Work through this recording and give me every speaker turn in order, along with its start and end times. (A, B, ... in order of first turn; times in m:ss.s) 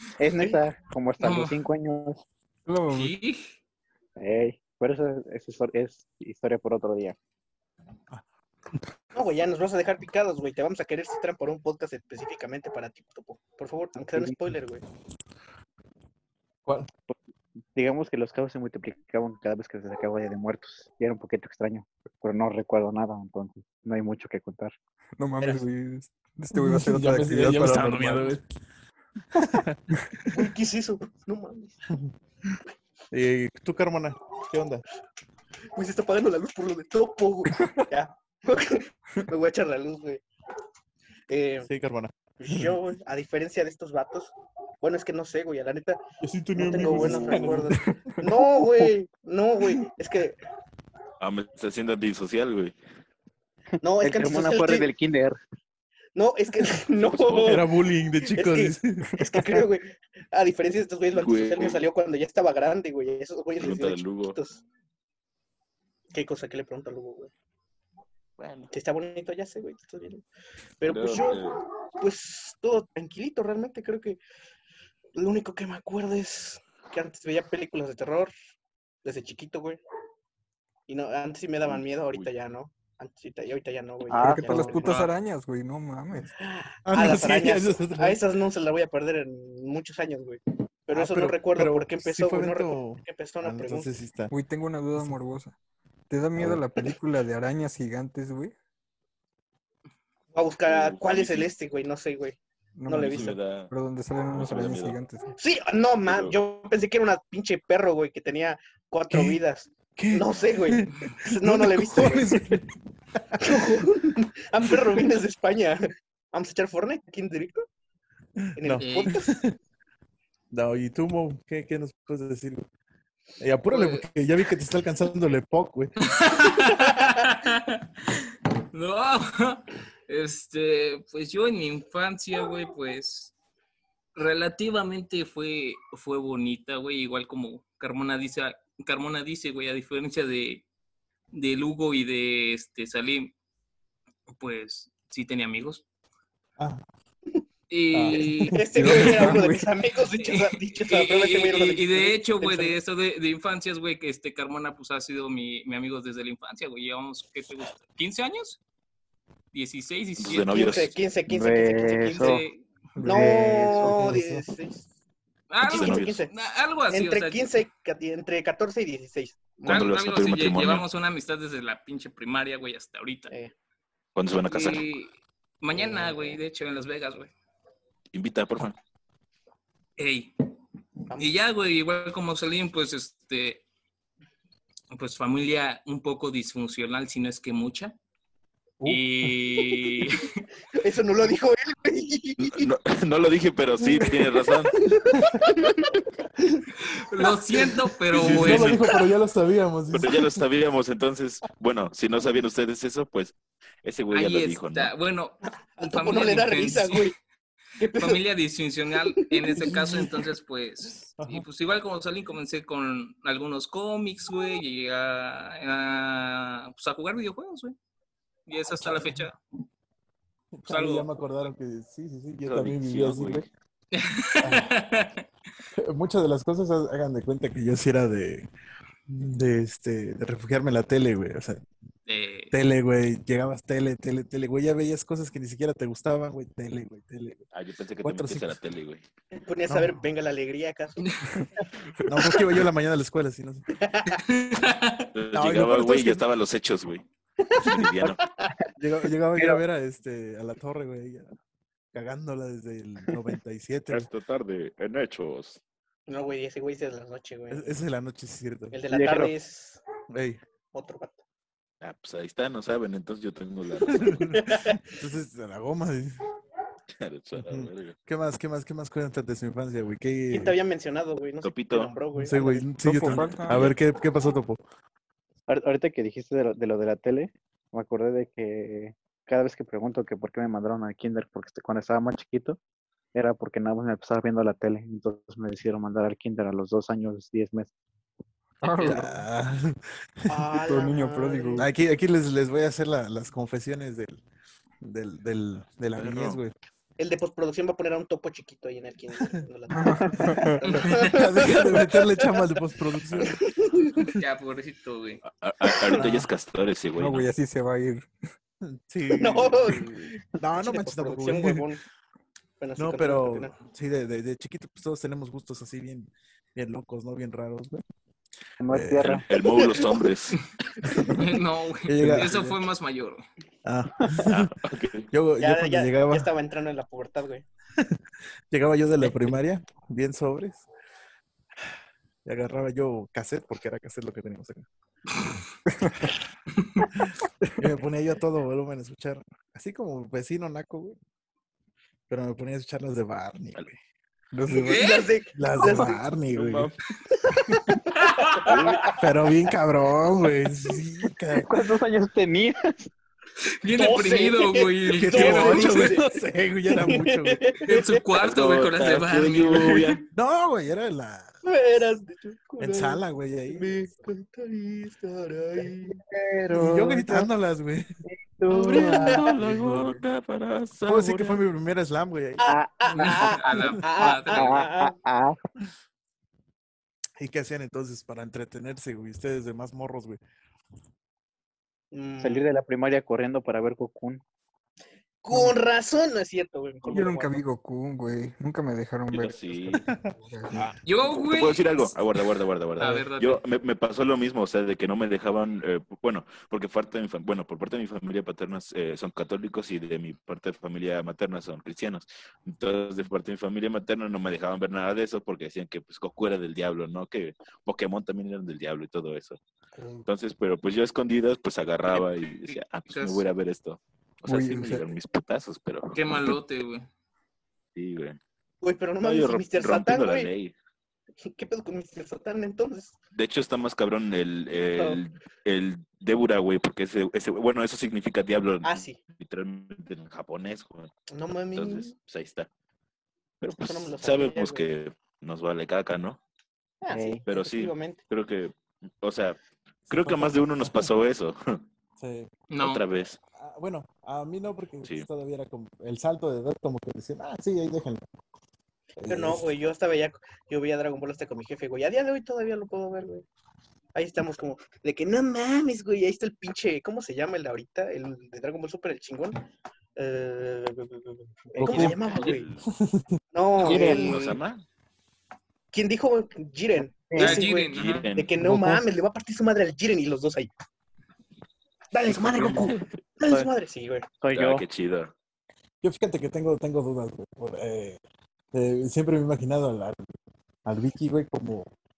0:00.2-0:02.2 A
0:01.2-0:01.6 B
0:02.6-0:03.1 C
0:02.9-0:03.5 B
0:04.2-0:07.2 A
0:09.1-0:14.8 D
0:17.7-0:24.7 A
0:25.2-0:28.4 C
0:26.6-0:28.4 E
0:29.3-0:30.3 E
0:30.3-0:31.8 D
0:33.1-0:34.8 E
0:35.7-0:40.2 D
0:41.3-0:41.7 D
0:41.6-0:42.8 E
0:42.4-0:46.0 D
0:46.2-0:47.8 E
0:46.5-0:50.4 D
0:46.8-0:47.4 A
0:51.2-0:52.8 F
0:53.8-0:54.9 D
0:54.0-0:55.4 A
0:56.2-0:57.7 D
0:57.0-0:57.6 F
0:57.4-0:59.1 E
0:58.3-1:04.6 D
1:01.1-1:01.8 F
1:03.6-1:04.4 F
1:06.1-1:07.3 D
1:08.4-1:08.7 F
1:08.7-1:10.2 D
1:10.8-1:11.5 D
1:10.9-1:11.6 F
1:12.0-1:14.2 D
1:15.2-1:18.3 D
1:19.0-1:19.8 D
1:20.9-1:25.0 D
1:21.6-1:22.3 F
1:24.1-1:24.8 A
1:24.2-1:26.3 C
1:24.8-1:25.1 B
1:26.4-1:33.9 D
1:26.8-1:28.2 E
1:30.9-1:34.3 E
1:34.3-1:35.6 C
1:36.1-1:38.5 C
1:36.4-1:36.6 E
1:40.3-1:43.3 D
1:40.6-1:41.5 F
1:42.8-1:45.2 C
1:42.9-1:43.7 F
1:44.3-1:45.0 F
1:45.3-1:52.5 D
1:46.0-1:46.4 F
1:49.1-1:49.4 E
1:50.0-1:53.8 E
1:53.4-1:57.6 D
1:58.4-1:59.5 E
1:58.6-1:59.3 D
1:58.8-1:59.2 B
2:00.5-2:02.6 E
2:03.4-2:06.0 E
2:03.7-2:04.0 D
2:06.0-2:08.0 B
2:06.8-2:07.2 D
2:08.7-2:13.3 B
2:14.1-2:20.6 B
2:21.3-2:23.3 B
2:24.3-2:25.8 B
2:26.6-2:26.8 E
2:27.7-2:29.4 B
2:27.9-2:29.4 E
2:28.1-2:32.8 D
2:28.7-2:29.7 C
2:30.2-2:38.6 B
2:39.5-2:40.6 B
2:40.2-2:41.0 F
2:40.5-2:42.4 D
2:41.3-2:42.4 A
2:42.1-2:42.6 B
2:43.0-2:43.9 C
2:43.0-2:44.8 D
2:43.0-2:44.2 A
2:43.8-2:44.5 E
2:45.5-2:47.4 B
2:45.6-2:46.2 F
2:45.6-2:46.3 D
2:46.9-2:49.8 D
2:49.6-2:50.8 F
2:49.6-2:53.3 B
2:54.1-2:54.9 F
2:54.4-2:57.3 B
2:55.7-2:56.4 E
2:58.1-2:58.8 F
3:00.0-3:00.3 B
3:01.2-3:03.6 B
3:04.9-3:07.9 B
3:08.8-3:09.5 E
3:08.8-3:10.4 B
3:10.7-3:12.7 D
3:12.4-3:14.8 F
3:13.9-3:16.0 D
3:16.8-3:18.8 B
3:17.2-3:17.7 D
3:18.1-3:20.4 E
3:18.2-3:18.7 F
3:19.9-3:24.9 F
3:24.1-3:27.1 B
3:25.8-3:27.1 D
3:27.8-3:28.2 D
3:28.0-3:37.7 B
3:29.1-3:29.6 D
3:29.5-3:30.1 E
3:31.2-3:31.4 E
3:38.5-3:39.4 B
3:38.8-3:39.3 E
3:40.5-3:43.4 E
3:40.7-3:41.1 B
3:42.4-3:43.5 F
3:43.9-3:45.2 B
3:44.4-3:44.8 E
3:45.8-3:48.5 E
3:49.1-3:51.6 E
3:52.1-3:52.5 B
3:52.5-3:57.5 E
3:57.5-3:59.0 F
3:58.0-3:58.6 E
3:59.3-4:01.1 D
3:59.7-4:00.1 E
4:02.1-4:03.6 E
4:03.7-4:04.2 D
4:04.2-4:05.1 B
4:05.1-4:07.0 F
4:05.3-4:06.2 E
4:07.5-4:08.5 D
4:07.7-4:08.2 F
4:08.8-4:11.4 E
4:09.4-4:09.6 A
4:11.9-4:14.1 E
4:13.9-4:15.6 F
4:16.1-4:17.7 D
4:17.5-4:19.3 E
4:18.7-4:19.8 D
4:18.9-4:19.3 A
4:20.1-4:20.4 E
4:20.7-4:21.2 D
4:21.8-4:24.2 F
4:23.8-4:26.2 E
4:24.3-4:24.8 D
4:26.9-4:28.0 F
4:27.4-4:30.6 E
4:30.3-4:32.7 D
4:31.4-4:32.0 F
4:32.1-4:34.6 E
4:32.8-4:33.7 C
4:33.1-4:33.8 F
4:35.5-4:42.6 A
4:43.1-4:47.7 A
4:48.6-4:49.2 C
4:48.8-4:50.4 E
4:50.3-4:51.7 D
4:50.7-4:51.7 C
4:51.6-4:54.2 E
4:54.8-4:56.5 E
4:56.0-4:56.4 F
4:57.0-5:02.5 D
4:59.7-5:00.9 C
5:00.1-5:03.4 E
5:00.7-5:01.1 B
5:03.2-5:04.1 D
5:04.2-5:05.2 B
5:05.2-5:07.3 F
5:05.7-5:06.1 D
5:06.0-5:06.3 E
5:07.0-5:08.1 C
5:08.6-5:11.7 E
5:09.1-5:09.9 D
5:10.6-5:11.8 D
5:12.6-5:13.6 D
5:12.8-5:17.8 E
5:18.6-5:19.2 A
5:18.7-5:19.2 E
5:19.0-5:20.4 F
5:19.5-5:20.0 D
5:20.8-5:21.3 E
5:21.1-5:23.2 B
5:21.8-5:22.6 E
5:23.6-5:24.5 E
5:24.2-5:25.1 F
5:25.1-5:26.3 E
5:25.4-5:27.4 D
5:28.5-5:30.7 E
5:32.2-5:34.7 E
5:37.0-5:41.0 E
5:42.1-5:43.8 E
5:44.3-5:44.8 C
5:44.5-5:46.0 D
5:44.6-5:45.1 B
5:45.3-5:46.7 E
5:45.6-5:46.0 C
5:46.3-5:46.7 F
5:47.2-5:49.3 D
5:47.9-5:48.7 B
5:48.5-5:48.8 F
5:49.0-5:51.6 E
5:51.3-5:52.9 A
5:53.4-5:56.0 B
5:53.7-5:56.1 D
5:54.9-5:57.5 E
5:56.7-5:58.0 D
5:57.6-6:00.0 B
5:58.2-6:00.0 F
6:00.1-6:01.3 E
6:01.4-6:05.9 D
6:02.6-6:03.9 E
6:05.8-6:07.3 A
6:06.5-6:07.9 E
6:08.0-6:09.2 A
6:08.5-6:11.4 F
6:09.4-6:10.0 C
6:09.5-6:09.9 E
6:10.8-6:12.5 E
6:12.4-6:15.0 D
6:12.4-6:15.4 A
6:12.9-6:14.6 B
6:17.2-6:20.2 E
6:21.9-6:22.5 D
6:22.2-6:24.2 A
6:25.2-6:27.4 D
6:26.9-6:30.7 C
6:29.1-6:29.8 F
6:29.7-6:30.6 E
6:30.6-6:49.4 F
6:30.8-6:31.9 B
6:32.8-6:33.4 B
6:49.8-6:50.0 D
6:50.0-6:56.0 F
6:51.9-6:53.2 B
6:54.2-6:54.9 C
6:55.9-6:56.8 B
6:57.7-6:58.2 F
6:58.6-7:00.3 D
6:59.0-7:00.5 F
7:01.2-7:03.0 D
7:03.1-7:10.9 F
7:04.7-7:05.0 D
7:08.6-7:09.0 D
7:11.1-7:11.9 D
7:11.5-7:12.5 F
7:13.4-7:16.2 F
7:13.6-7:14.6 D
7:16.8-7:18.0 D
7:16.9-7:17.2 A
7:17.2-7:21.6 F
7:19.9-7:20.9 E
7:22.0-7:22.3 E
7:22.5-7:22.8 B
7:22.6-7:23.2 F
7:23.4-7:28.0 E
7:29.0-7:29.5 E
7:29.1-7:33.2 D
7:33.9-7:39.4 D
7:40.0-7:42.5 D
7:41.5-7:42.0 A
7:41.6-7:42.0 E
7:41.8-7:42.6 F
7:42.6-7:43.2 E
7:43.3-7:44.4 D
7:43.6-7:44.6 F
7:43.6-7:44.2 A
7:43.6-7:44.0 B
7:45.7-7:50.5 D
7:46.8-7:47.4 A
7:47.2-7:48.1 B
7:47.7-7:48.3 F
7:48.4-7:48.8 E
7:51.9-7:54.1 D
7:52.1-7:53.0 F
7:52.4-7:52.7 A
7:54.2-7:54.6 A
7:54.3-7:55.1 F
7:55.8-7:58.0 E
7:58.5-8:00.0 E
8:00.6-8:01.7 E